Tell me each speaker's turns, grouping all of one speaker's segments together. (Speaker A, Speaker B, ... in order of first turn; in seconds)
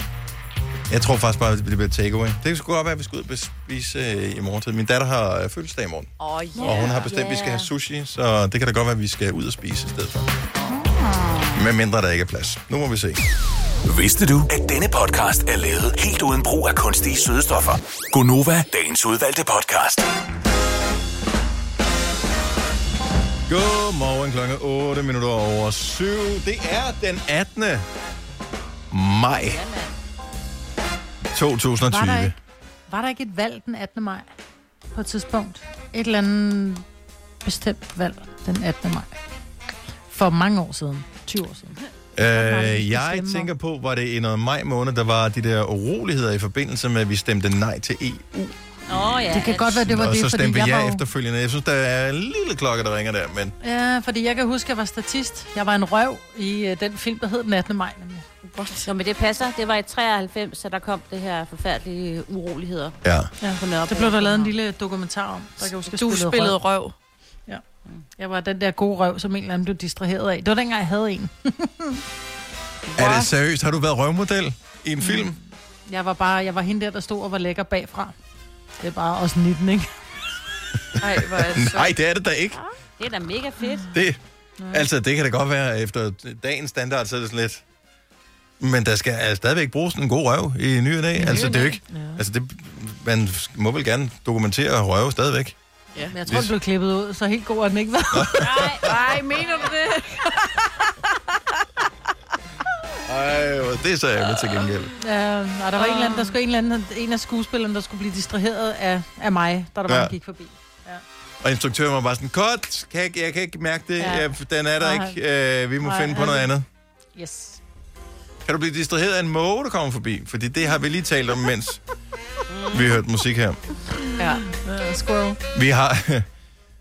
Speaker A: 0.9-10.3, 11.5-13.2, 23.5-27.9, 28.9-29.6, 31.3-32.4, 42.2-48.5, 49.8-53.5, 63.0-63.3, 73.0-75.4, 81.4-82.6, 83.9-84.2, 84.7-87.6, 88.6-95.6, 96.3-96.5, 98.1-98.9, 103.1-104.9, 109.9-110.1, 111.4-116.7, 118.5-121.8, 122.7-123.6, 125.5-126.3
Speaker B: 6.2-6.9, 58.4-58.9, 65.8-67.0, 81.0-81.9, 91.2-91.8, 98.8-100.7, 105.8-106.3
Speaker C: 6.6-7.7, 29.5-29.9, 48.9-49.8, 58.9-63.0, 63.5-64.5, 82.6-83.9, 98.4-98.9, 122.5-122.9
Speaker D: 13.8-20.1
Speaker E: 31.9-32.4, 32.9-34.3, 34.9-36.9, 37.4-39.1, 40.1-41.8, 42.3-43.5, 49.3-51.0, 53.6-58.2, 63.4-66.6, 68.2-72.0, 75.0-75.3, 75.9-78.1, 78.8-79.9, 91.9-92.2, 96.1-98.6, 105.0-111.0, 114.0-114.3, 114.8-115.2, 115.8-116.5, 117.2-117.6, 124.5-125.4